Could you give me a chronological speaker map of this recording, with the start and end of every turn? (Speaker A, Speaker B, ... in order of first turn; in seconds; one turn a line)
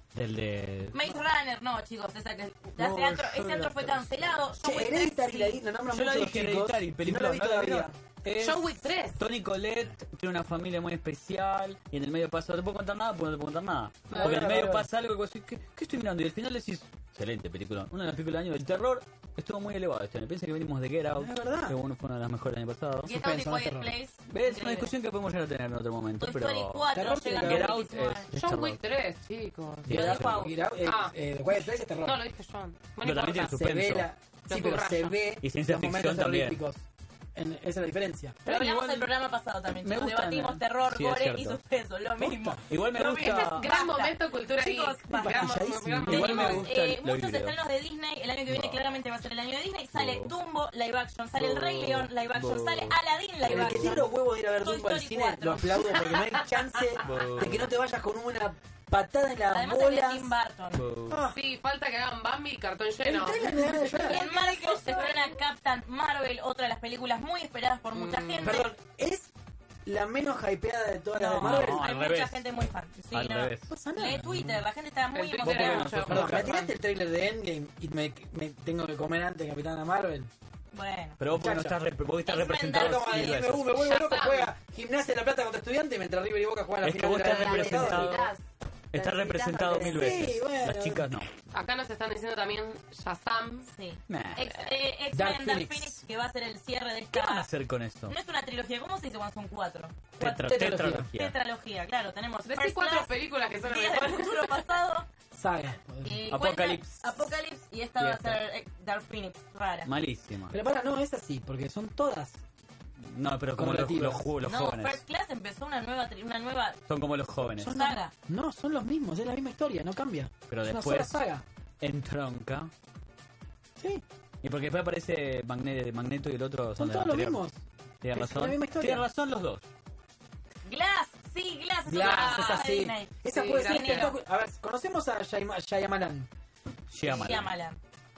Speaker A: 0.1-1.2
Speaker B: 0.9-5.6
Speaker C: 2.8-3.4
Speaker A: 2.8-4.3
Speaker C: 4.6-7.9
Speaker A: 5.9-23.1
Speaker D: 8.3-9.2
Speaker D: 14.1-14.7
Speaker C: 14.1-14.9
Speaker C: 21.1-21.8
Speaker C: 23.0-23.9
Speaker B: 23.1-24.9
Speaker A: 24.3-28.8
Speaker B: 26.2-28.3
Speaker C: 26.9-27.8
Speaker D: 28.3-30.2
Speaker A: 29.9-30.4
Speaker C: 29.9-32.2
Speaker B: 29.9-30.5
Speaker D: 30.8-31.1
Speaker D: 32.0-33.7
Speaker A: 33.0-34.1
Speaker C: 33.5-38.6
Speaker D: 34.5-35.2
Speaker A: 35.4-36.6
Speaker A: 38.5-39.1
Speaker B: 38.5-54.1
Speaker A: 39.8-41.6
Speaker C: 42.2-42.6
Speaker A: 42.6-43.7
Speaker D: 43.2-46.6
Speaker C: 45.1-46.7
Speaker A: 46.0-47.6
Speaker A: 48.5-48.8
Speaker A: 49.9-50.3
Speaker A: 51.4-54.0
Speaker C: 53.5-60.3
Speaker B: 54.6-56.0
Speaker D: 56.0-56.8
Speaker A: 57.0-57.7
Speaker B: 59.5-60.8
Speaker A: 60.7-61.2
Speaker C: 61.1-61.4
Speaker D: 61.3-64.2
Speaker C: 63.0-65.3
Speaker B: 63.9-68.7
Speaker D: 67.9-68.6
Speaker C: 68.4-69.3
Speaker C: 69.8-71.8
Speaker B: 71.2-76.0
Speaker A: 71.4-73.7
Speaker C: 73.7-74.6
Speaker D: 75.1-76.7
Speaker A: 75.4-76.5
Speaker C: 76.0-80.3
Speaker B: 80.7-81.2
Speaker A: 81.2-83.7
Speaker C: 81.3-81.8
Speaker B: 82.2-83.4
Speaker C: 82.7-88.3
Speaker D: 83.7-84.5
Speaker A: 86.8-88.3
Speaker E: 87.2-88.4
Speaker A: 88.9-91.3
Speaker E: 88.9-90.2
Speaker C: 89.9-91.2
Speaker D: 91.5-93.7
Speaker B: 93.7-97.5
Speaker A: 94.1-94.5
Speaker C: 95.1-96.0
Speaker A: 97.1-98.1
Speaker B: 98.1-103.1
Speaker A: 100.2-101.4
Speaker C: 100.4-101.1
Speaker D: 102.5-104.6
Speaker B: 103.6-105.1
Speaker C: 105.3-106.2
Speaker B: 106.0-109.9
Speaker A: 106.3-107.2
Speaker A: 108.0-108.4
Speaker A: 109.8-110.6
Speaker C: 110.5-112.4
Speaker A: 113.0-115.0
Speaker C: 113.5-114.3
Speaker B: 114.4-116.8
Speaker A: 116.9-117.7
Speaker C: 117.6-121.4
Speaker B: 117.6-118.1
Speaker A: 120.5-121.2
Speaker A: 121.8-122.7
Speaker C: 123.8-124.0
Speaker A: 124.4-127.4
Speaker C: 126.8-127.6
Speaker A: 128.0-129.6
Speaker C: 128.1-129.0
Speaker B: 130.6-134.2
Speaker C: 131.9-136.3
Speaker D: 131.9-132.7
Speaker D: 133.3-134.1
Speaker A: 136.9-137.5
Speaker B: 137.0-137.8